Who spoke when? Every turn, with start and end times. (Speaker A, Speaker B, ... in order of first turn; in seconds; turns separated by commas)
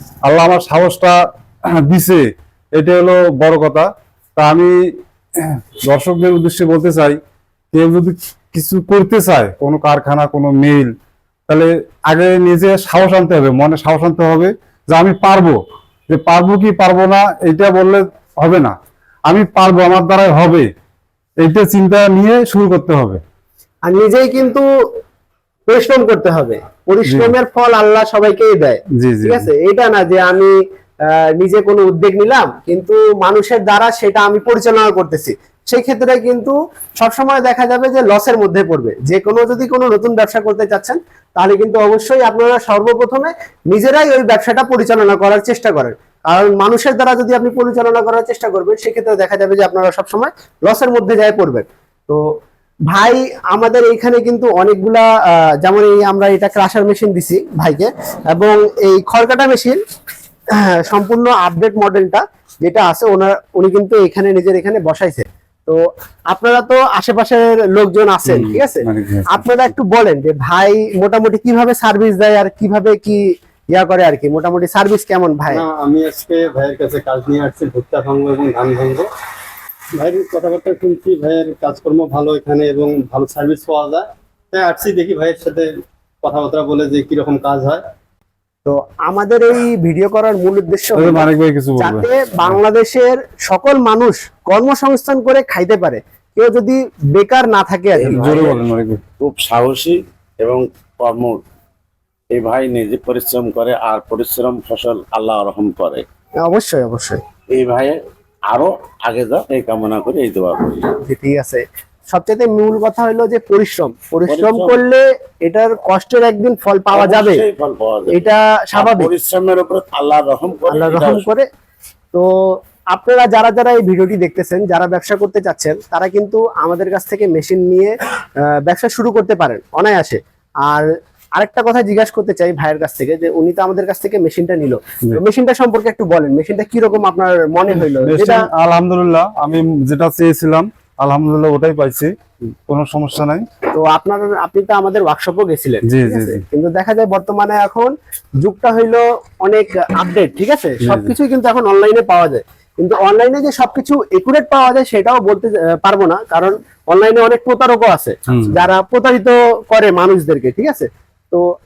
Speaker A: 0.2-1.1, Speaker A: 1.8-2.2, Speaker A: 2.8-4.7, Speaker A: 5.4-7.2, Speaker A: 7.7-10.9, Speaker A: 11.5-18.7, Speaker A: 19.3-20.7, Speaker A: 21.4-23.2, Speaker B: 23.9-24.6, Speaker B: 25.7-52.2, Speaker A: 27.1-27.4, Speaker A: 28.9-29.5, Speaker B: 52.9-55.1, Speaker B: 55.6-59.8, Speaker B: 60.5-65.8, Speaker B: 66.3-73.2, Speaker A: 68.2-69.7, Speaker B: 73.7-75.6, Speaker C: 75.5-79.1, Speaker C: 80.0-85.7, Speaker C: 86.2-87.8, Speaker B: 88.6-98.5, Speaker A: 91.0-92.6, Speaker D: 98.0-98.6, Speaker A: 98.0-99.0, Speaker D: 99.2-101.4, Speaker D: 102.3-106.0, Speaker B: 106.4-107.2, Speaker D: 107.5-108.0, Speaker D: 108.5-110.9, Speaker B: 111.0-117.4, Speaker D: 114.3-114.8, Speaker D: 116.9-121.2, Speaker B: 118.1-119.1, Speaker B: 120.7-121.5, Speaker B: 122.9-127.9, Speaker B: 128.4-138.4, Speaker A: 137.7-142.1, Speaker A: 142.7-143.4, Speaker B: 143.7-161.4, Speaker A: 145.9-146.4, Speaker A: 150.8-151.1, Speaker A: 158.3-158.6